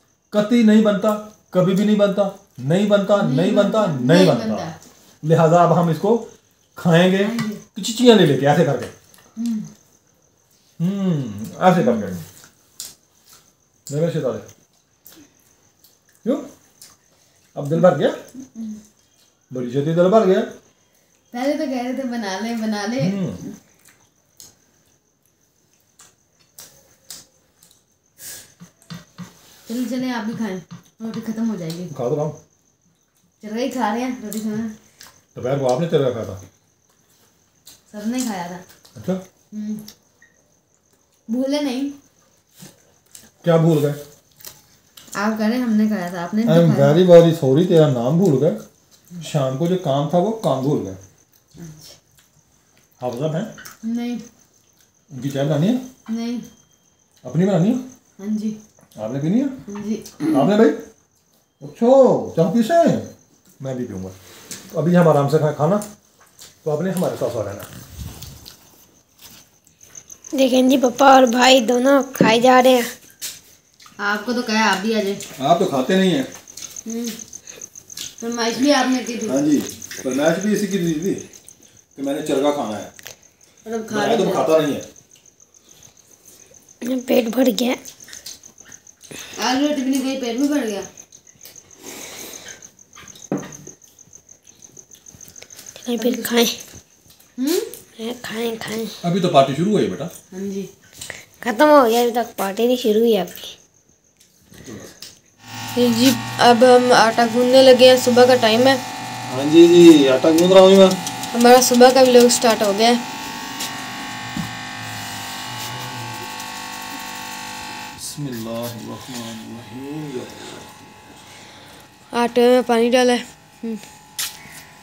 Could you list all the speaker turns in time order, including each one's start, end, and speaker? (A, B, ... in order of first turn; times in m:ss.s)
0:00.3-0:04.7 A
0:03.2-0:04.7 B
0:05.2-0:08.9 A
0:07.2-0:07.6 B
0:09.4-0:09.7 B
0:10.8-0:12.2 A
0:11.8-0:12.2 B
0:13.9-0:14.4 A
0:17.5-0:18.2 A
0:19.5-0:20.5 A
0:21.3-0:23.5 B
0:23.0-0:23.4 A
0:29.7-0:31.9 B
0:31.9-0:32.4 A
0:33.4-0:34.7 B
0:35.3-0:36.4 A
0:37.9-0:38.6 B
0:38.9-0:39.2 A
0:39.5-0:39.8 B
0:41.3-0:41.9 B
0:43.4-0:44.0 A
0:45.1-0:47.0 B
0:46.4-0:48.6 A
0:49.2-0:51.0 A
0:51.6-0:51.9 B
0:53.0-0:53.5 A
0:53.8-0:54.2 B
0:55.1-0:55.8 A
0:56.1-0:56.4 B
0:57.2-0:57.8 A
0:58.2-0:58.6 B
0:59.0-0:59.6 A
0:59.7-1:00.2 B
1:00.2-1:00.8 A
1:01.6-1:04.1 A
1:04.7-1:05.8 A
1:06.6-1:07.7 A
1:10.3-1:12.9 C
1:14.0-1:15.2 B
1:15.4-1:16.3 A
1:16.8-1:17.2 B
1:18.2-1:19.4 B
1:19.3-1:21.2 A
1:22.0-1:22.9 A
1:23.6-1:24.6 B
1:23.9-1:24.8 A
1:26.8-1:27.8 C
1:29.4-1:30.9 B
1:35.8-1:36.6 C
1:36.0-1:36.3 B
1:37.4-1:37.7 B
1:38.0-1:38.9 C
1:39.0-1:40.1 A
1:40.3-1:40.7 B
1:41.4-1:43.5 C
1:44.6-1:44.9 A
1:45.7-1:48.8 B
1:49.3-1:51.0 A
1:51.3-1:53.0 B
1:58.0-2:00.6 A
2:02.1-2:03.8 B